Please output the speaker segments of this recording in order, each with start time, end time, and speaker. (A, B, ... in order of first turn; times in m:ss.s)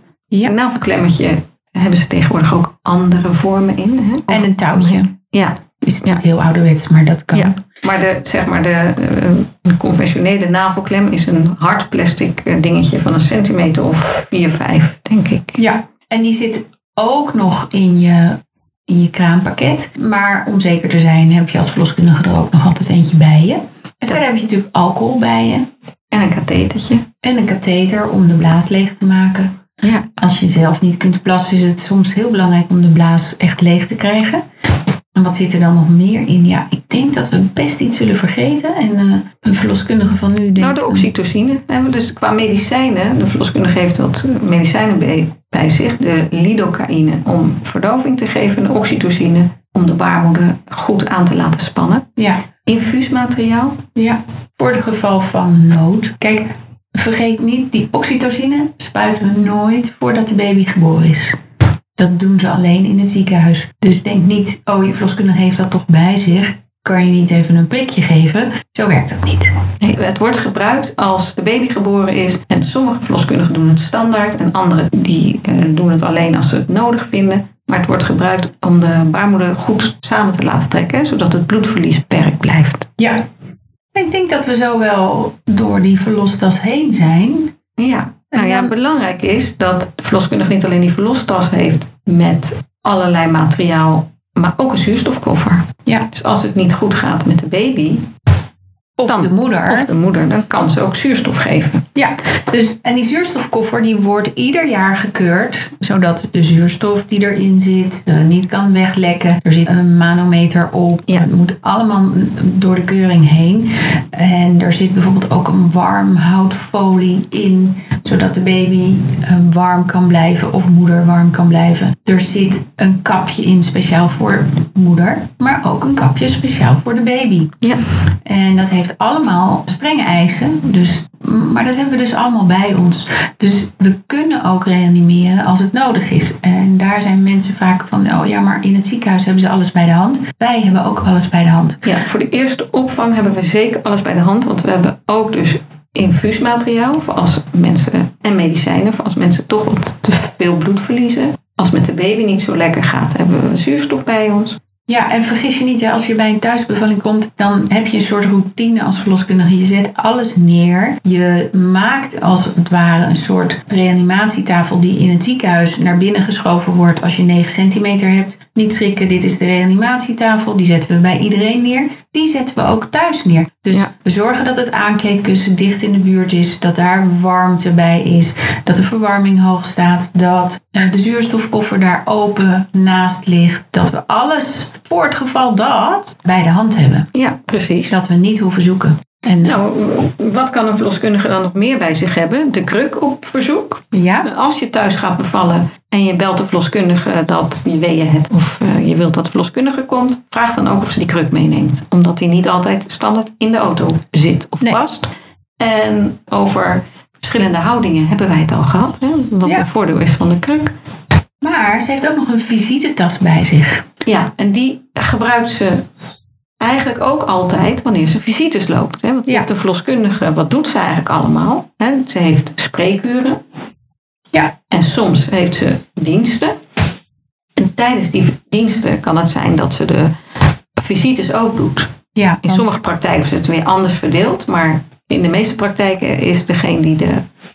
0:00.4-0:06.2 A
0:04.3-0:05.1 B
0:05.8-0:07.6 B
0:07.3-0:15.6 A
0:15.6-0:25.7 B
0:26.1-0:27.0 A
0:27.2-0:34.4 B
0:35.1-0:41.1 B
0:40.6-0:52.1 A
0:52.2-0:52.5 B
0:52.6-0:53.8 A
0:54.0-1:01.4 B
1:02.0-1:09.5 B
1:09.8-1:22.9 A
1:23.0-1:23.2 B
1:23.9-1:27.5 B
1:27.8-1:38.1 A
1:28.3-1:28.7 B
1:39.0-1:39.9 B
1:39.1-1:41.8 A
1:41.9-2:07.6 B
2:07.6-2:07.8 A
2:08.2-2:21.8 B
2:21.8-2:34.6 A
2:34.9-3:07.1 B
3:07.1-3:08.0 A
3:07.9-3:09.6 B
3:09.4-3:30.7 A
3:13.9-3:14.3 B
3:31.4-3:33.8 B
3:34.0-3:35.8 A
3:36.6-3:43.4 A
3:44.7-3:46.6 A
3:47.6-3:50.1 A
3:50.8-3:51.9 A
3:52.1-3:52.7 B
3:52.4-3:57.2 A